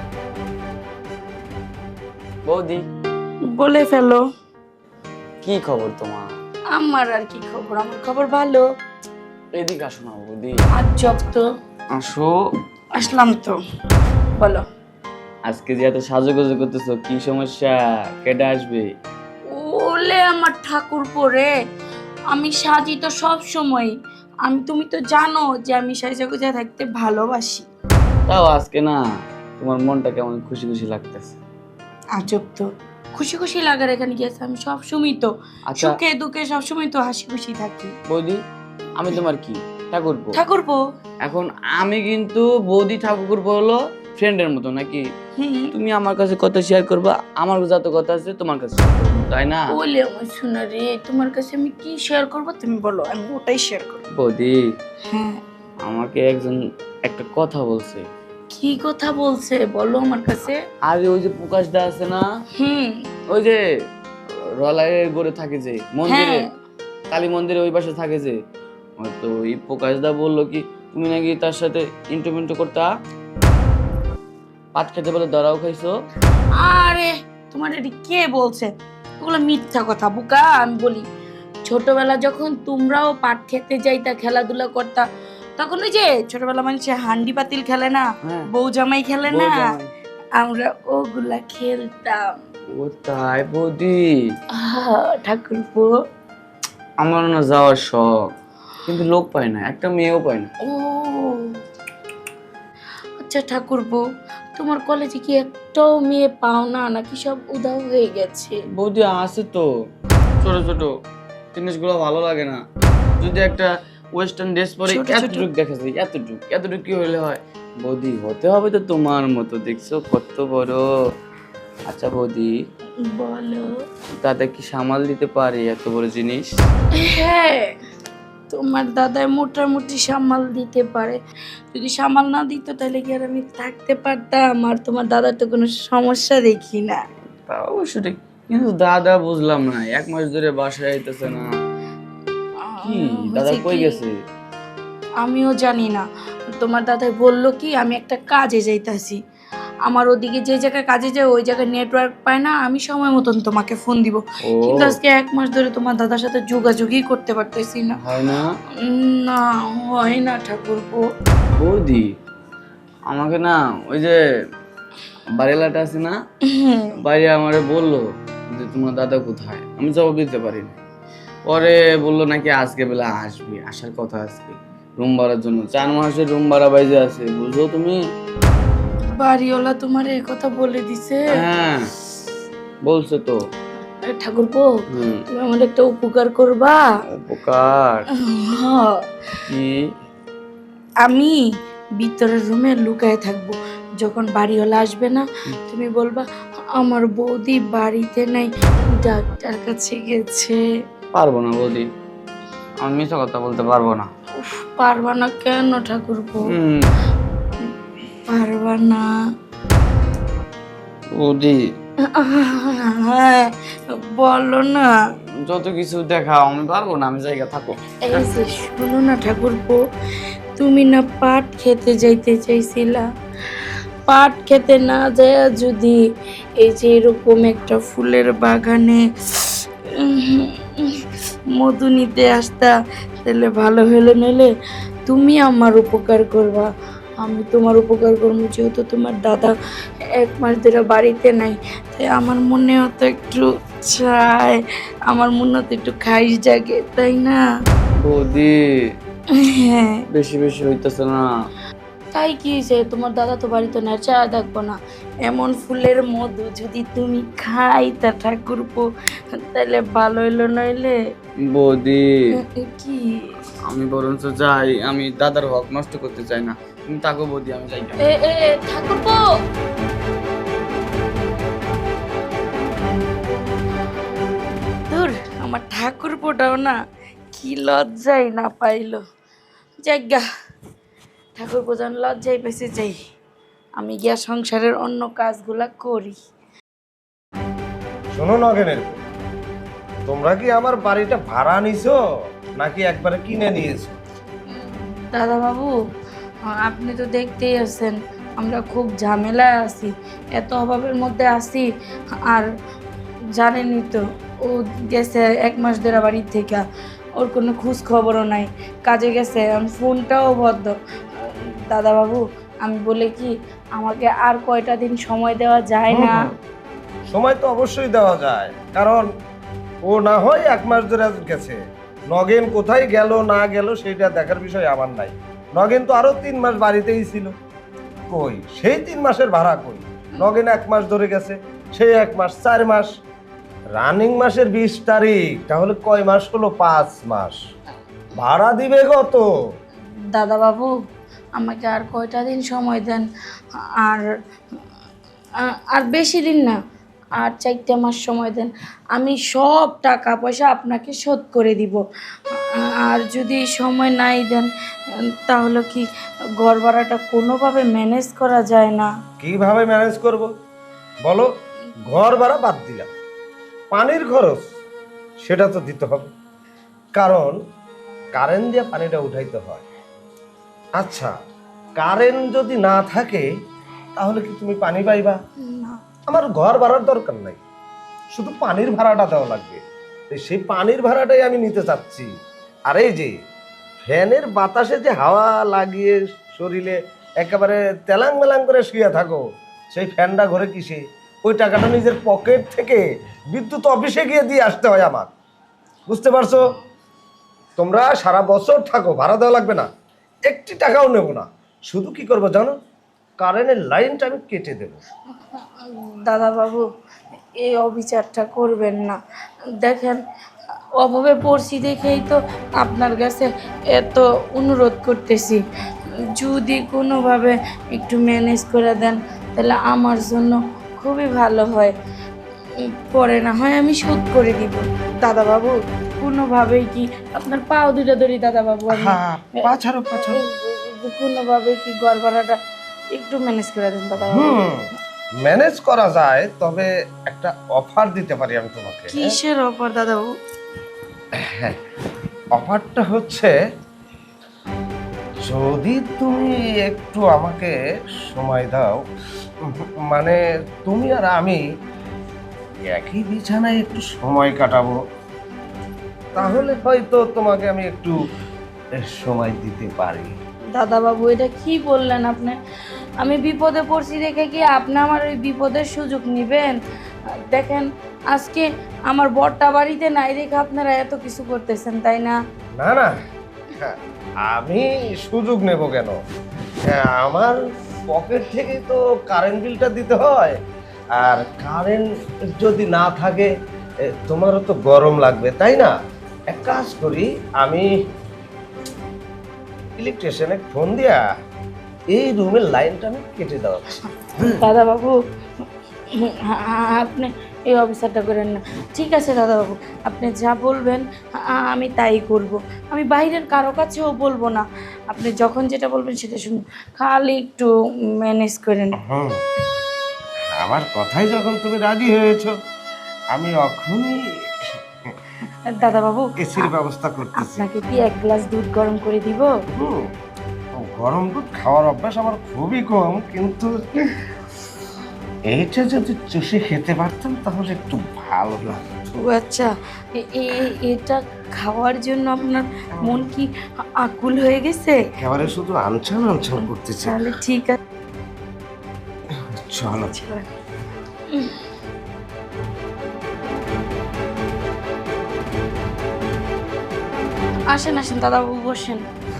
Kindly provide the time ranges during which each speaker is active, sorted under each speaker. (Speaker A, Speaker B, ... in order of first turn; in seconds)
Speaker A: 2.5-2.8, 5.4-6.3, 9.5-10.6, 11.9-12.4, 15.5-18.9, 28.3-29.0, 29.6-31.4, 35.7-35.9, 38.1-38.4, 39.0-40.3, 41.2-45.0, 45.7-49.7, 54.1-54.6, 55.9-58.0, 60.9-62.2, 63.3-63.6, 64.6-66.4, 67.1-68.4, 69.0-72.9, 74.7-75.9, 89.3-89.9, 92.7-94.1, 97.0-98.3, 98.8-100.5, 108.8-109.7, 110.4-110.9, 111.5-112.6, 113.2-120.8, 121.9-122.5, 124.2-126.5, 137.4-141.4, 142.8-144.1, 154.4-155.0, 158.0-158.5, 161.6-162.1, 163.1-164.2, 165.4-166.2, 167.0-170.7, 171.5-178.0, 181.3-181.8, 182.8-183.4, 184.9-185.2, 187.2-188.1, 189.4-189.9, 201.1-201.9, 202.8-204.1, 206.5-206.9, 211.2-211.6, 215.5-218.3, 248.0-248.6, 250.1-251.3, 261.5-262.1, 263.7-268.0
Speaker B: 3.5-4.2, 6.7-8.6, 10.7-11.4, 12.9-13.6, 14.4-14.6, 19.5-21.5, 22.3-23.9, 24.4-27.7, 32.1-37.9, 40.3-40.8, 45.4-45.7, 49.7-54.0, 55.1-55.4, 58.5-60.6, 62.6-63.1, 66.1-66.4, 76.6-81.0, 81.7-85.0, 85.6-89.7, 90.4-92.3, 94.5-95.9, 100.6-101.6, 103.2-104.0, 104.6-108.6, 114.8-115.5, 123.0-123.8, 126.9-127.8, 128.5-131.2, 131.7-137.0, 142.6-144.0, 145.2-149.2, 149.9-158.0, 158.8-161.0, 166.4-167.0, 179.1-181.2, 184.0-186.8, 188.1-189.1, 191.0-191.4, 192.0-196.2, 196.8-200.6, 204.3-206.5, 208.1-209.1, 212.1-214.9, 218.0-219.8, 220.6-223.1, 223.6-226.0, 226.6-234.5, 235.1-239.5, 240.1-247.4, 249.3-250.0, 252.1-260.9, 262.4-263.5, 268.0-269.2, 274.9-276.7, 277.3-279.0, 279.8-280.2, 281.4-283.0, 283.8-286.1, 294.5-295.7, 296.5-301.7, 303.4-306.6, 307.2-316.2, 340.1-340.7, 341.4-344.1, 345.4-346.6, 347.2-354.5, 355.1-355.9, 356.4-358.9, 375.4-375.8, 405.3-406.7, 407.4-409.0, 409.6-410.0, 410.8-415.4, 416.1-421.7, 422.6-429.0, 430.0-432.4, 432.9-434.3, 438.9-440.1, 456.1-456.6, 460.6-462.4, 463.0-466.6, 467.3-472.2, 494.2-494.9, 495.9-508.8, 515.4-516.5, 517.2-519.3, 528.9-534.9, 536.4-537.6, 539.9-540.3, 541.1-541.4, 547.5-548.8
Speaker C: 288.1-289.0, 290.1-292.0, 292.6-294.0, 315.9-316.3, 317.1-319.0, 319.8-321.6, 322.1-327.3, 328.1-332.9, 333.8-337.4, 338.1-339.3, 359.2-360.3, 361.9-362.9, 363.7-364.4, 365.2-366.1, 366.9-367.4, 368.1-369.6, 370.8-371.1, 371.8-373.3, 374.0-375.2, 376.1-377.4, 378.1-382.1, 382.7-383.1, 383.8-395.1, 395.9-396.4, 397.6-399.7, 400.2-402.5, 403.2-404.8, 428.7-430.2, 433.9-439.1, 441.2-441.6, 442.3-443.3, 445.2-448.8, 449.4-451.4, 452.7-454.8, 456.1-457.9, 458.8-460.2, 472.6-472.9, 473.5-476.0, 476.6-480.4, 480.9-483.3, 483.8-485.7, 486.3-487.7, 489.8-491.0, 491.9-494.5, 508.8-509.2, 510.3-512.3, 513.1-514.9, 516.2-517.5, 519.5-519.9, 520.6-524.0, 525.3-528.6, 532.8-533.1, 535.0-537.0, 539.2-539.9